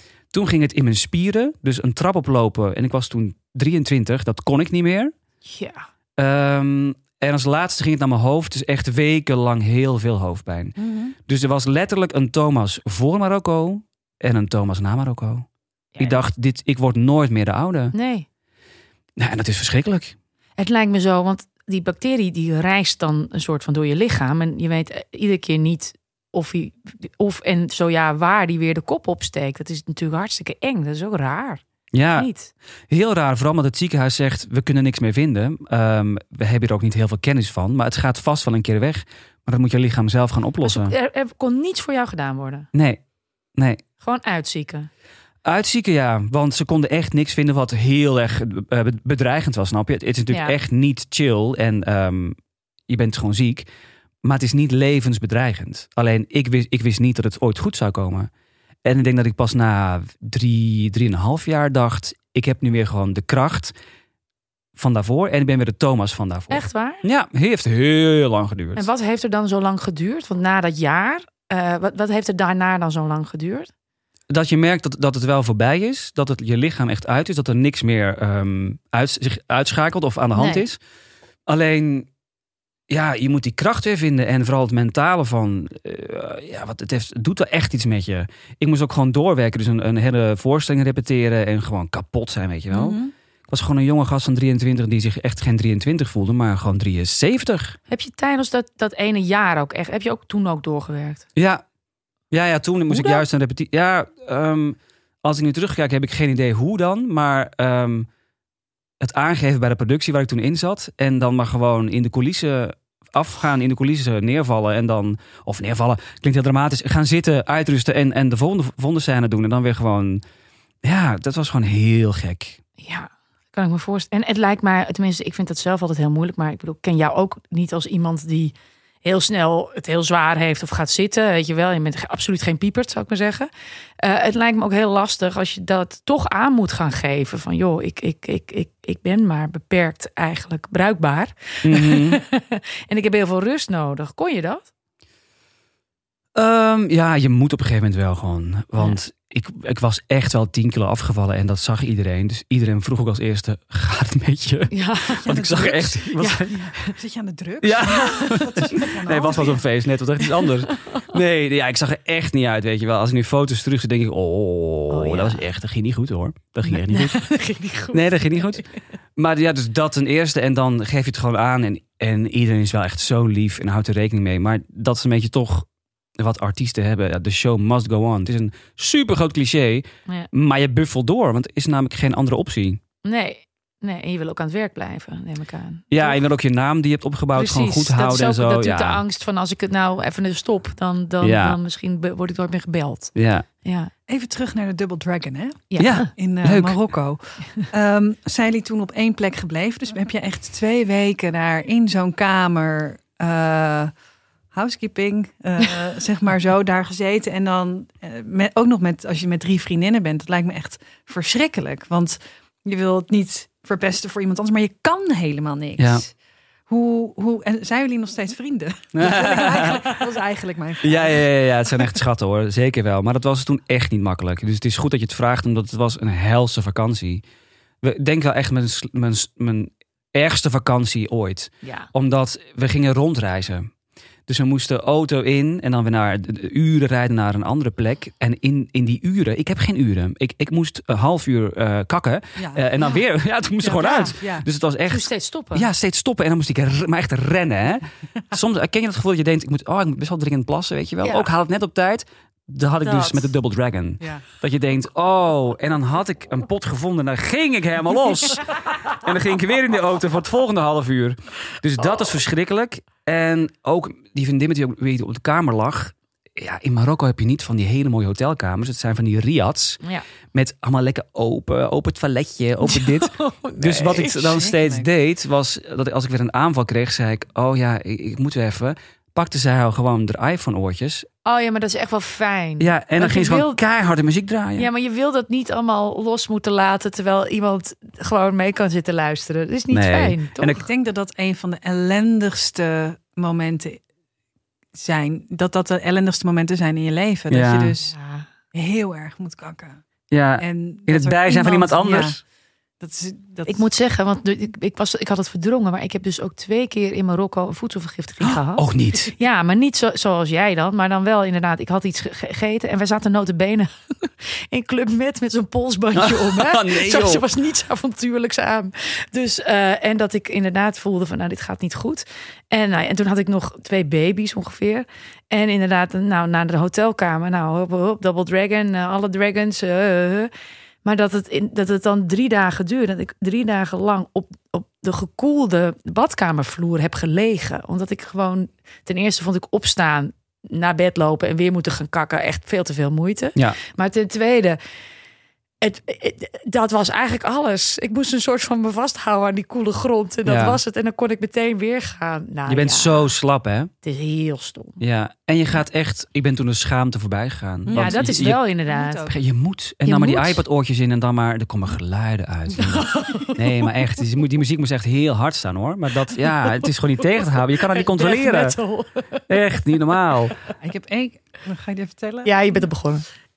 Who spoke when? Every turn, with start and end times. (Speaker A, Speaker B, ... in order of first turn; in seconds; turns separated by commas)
Speaker A: 0.3-5.1, Speaker B: 5.5-5.8, Speaker A: 6.2-15.5, Speaker C: 10.8-11.1, Speaker B: 16.0-16.2, Speaker A: 16.0-17.9, Speaker B: 17.9-18.3, Speaker A: 19.2-20.1, Speaker B: 20.6-32.5, Speaker A: 31.9-32.3, Speaker A: 32.9-40.9, Speaker B: 40.6-42.7, Speaker A: 42.7-43.0, Speaker A: 43.6-43.8, Speaker B: 44.0-44.9, Speaker A: 45.5-52.4, Speaker B: 50.3-50.6, Speaker A: 52.9-53.7, Speaker A: 54.2-58.3, Speaker A: 58.9-63.7, Speaker A: 64.8-68.9, Speaker B: 66.5-67.0, Speaker B: 68.8-73.7, Speaker A: 74.3-80.8, Speaker B: 80.3-80.6, Speaker A: 81.5-82.1, Speaker A: 82.9-93.0, Speaker C: 92.7-93.1, Speaker A: 93.5-97.8, Speaker B: 97.9-101.2, Speaker A: 101.4-101.6, Speaker A: 102.3-108.1, Speaker B: 102.9-103.2, Speaker A: 109.0-120.2, Speaker A: 120.8-122.6, Speaker B: 122.8-144.7, Speaker A: 141.6-142.2, Speaker A: 146.3-156.6, Speaker B: 154.7-155.3, Speaker C: 155.2-159.6, Speaker B: 156.2-156.5, Speaker A: 157.6-167.3, Speaker B: 157.9-158.3, Speaker B: 160.4-161.0, Speaker B: 164.9-165.4, Speaker B: 166.7-168.7, Speaker A: 167.9-168.7, Speaker A: 169.2-175.7, Speaker A: 176.2-182.8, Speaker B: 183.0-186.2, Speaker A: 185.9-189.0, Speaker B: 187.3-193.1, Speaker A: 191.2-191.6, Speaker A: 193.2-193.5, Speaker B: 193.6-193.9, Speaker C: 194.1-203.9, Speaker B: 195.7-196.1, Speaker A: 195.8-196.8, Speaker C: 204.5-216.1, Speaker C: 216.7-221.4, Speaker A: 218.9-219.9, Speaker A: 220.8-227.2, Speaker A: 227.8-233.7, Speaker B: 231.6-231.9, Speaker A: 234.3-269.8, Speaker C: 242.4-242.7, Speaker C: 243.6-244.4, Speaker B: 243.7-244.1, Speaker B: 244.9-245.7, Speaker B: 251.0-251.3, Speaker B: 252.8-253.3, Speaker A: 270.3-281.1, Speaker B: 272.6-274.4, Speaker C: 274.2-274.9, Speaker B: 281.2-283.6, Speaker A: 282.6-284.7, Speaker B: 284.6-290.6, Speaker A: 289.7-290.7, Speaker C: 290.4-293.8, Speaker C: 294.7-297.9, Speaker A: 297.3-297.7, Speaker B: 297.9-298.3, Speaker C: 298.5-299.8, Speaker A: 300.1-302.2, Speaker C: 300.4-302.2, Speaker C: 302.8-303.6, Speaker B: 303.5-330.3, Speaker A: 308.2-309.1, Speaker A: 315.9-317.2, Speaker B: 330.8-344.6, Speaker B: 345.6-353.1, Speaker A: 350.2-350.6, Speaker A: 352.5-353.7, Speaker B: 353.8-354.8, Speaker A: 354.8-358.4, Speaker C: 357.7-359.1, Speaker B: 357.7-359.1, Speaker A: 359.1-368.6, Speaker B: 359.9-360.4, Speaker B: 362.6-363.4, Speaker B: 366.3-369.3, Speaker A: 369.3-370.3, Speaker C: 370.6-372.3, Speaker B: 372.2-373.1